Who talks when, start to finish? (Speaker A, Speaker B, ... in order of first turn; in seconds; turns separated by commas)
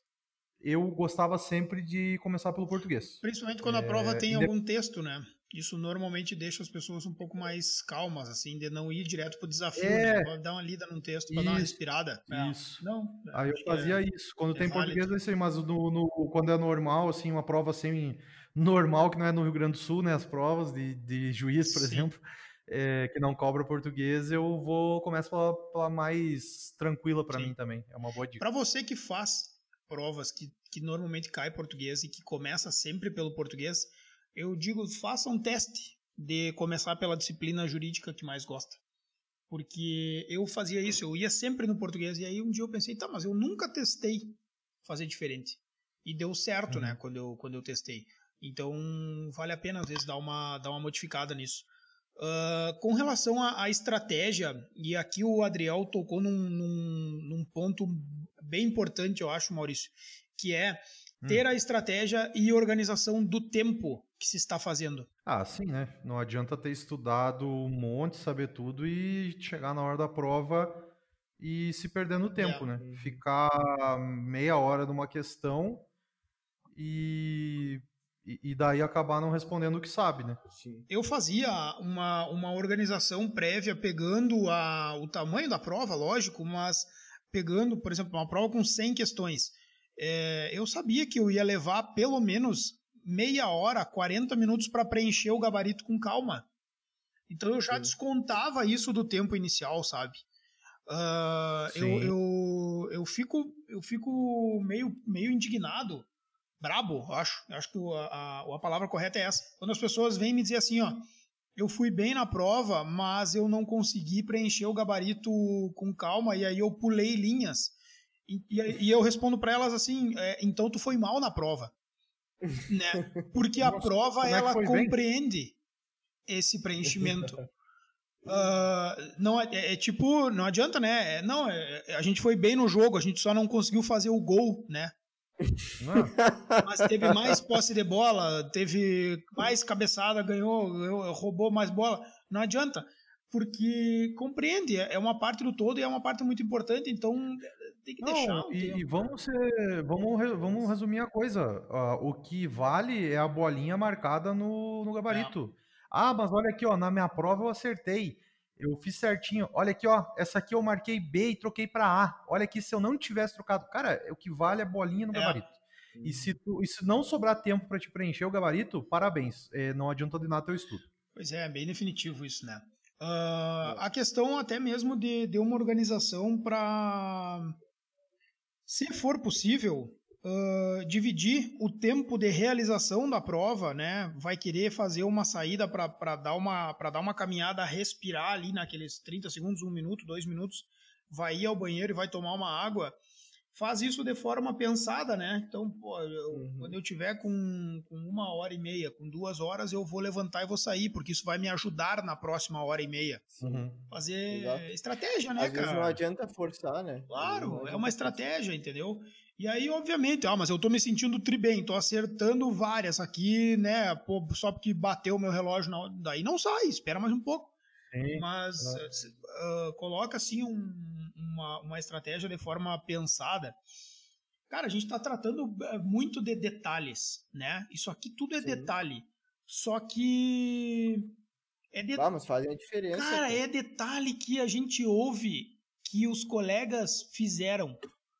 Speaker A: 0.6-4.5, Speaker B: 3.2-14.0, Speaker A: 9.8-10.3, Speaker A: 11.3-28.4, Speaker B: 14.5-15.1, Speaker B: 21.6-22.1, Speaker B: 27.3-27.5, Speaker B: 28.4-38.8, Speaker B: 39.5-65.1, Speaker A: 46.7-47.0, Speaker A: 65.2-70.9, Speaker A: 71.4-75.8, Speaker B: 72.3-72.7, Speaker C: 72.8-73.2, Speaker A: 76.7-80.4, Speaker C: 80.5-80.9, Speaker B: 80.9-96.5, Speaker B: 97.3-100.2, Speaker B: 100.9-106.1, Speaker A: 101.7-102.1, Speaker B: 106.6-111.0, Speaker B: 111.5-117.7, Speaker B: 118.3-121.7, Speaker B: 122.7-125.6, Speaker A: 123.6-125.0, Speaker B: 126.3-127.4, Speaker C: 126.9-127.4, Speaker B: 128.2-134.9, Speaker C: 135.4-137.3, Speaker A: 135.8-136.2, Speaker B: 136.6-148.8, Speaker A: 148.0-170.9, Speaker B: 155.1-155.3, Speaker B: 165.1-165.4, Speaker C: 165.9-166.3, Speaker B: 171.1-177.5, Speaker B: 178.7-193.0, Speaker B: 193.5-203.2, Speaker C: 196.3-196.8, Speaker C: 203.3-203.7, Speaker A: 203.4-203.8, Speaker B: 203.9-206.0, Speaker C: 204.3-204.7, Speaker C: 205.4-208.2, Speaker B: 207.1-217.5, Speaker A: 217.9-218.8, Speaker B: 218.1-223.6, Speaker B: 224.5-231.1, Speaker C: 228.4-228.7, Speaker B: 231.7-232.1, Speaker C: 231.9-233.4, Speaker B: 232.9-237.8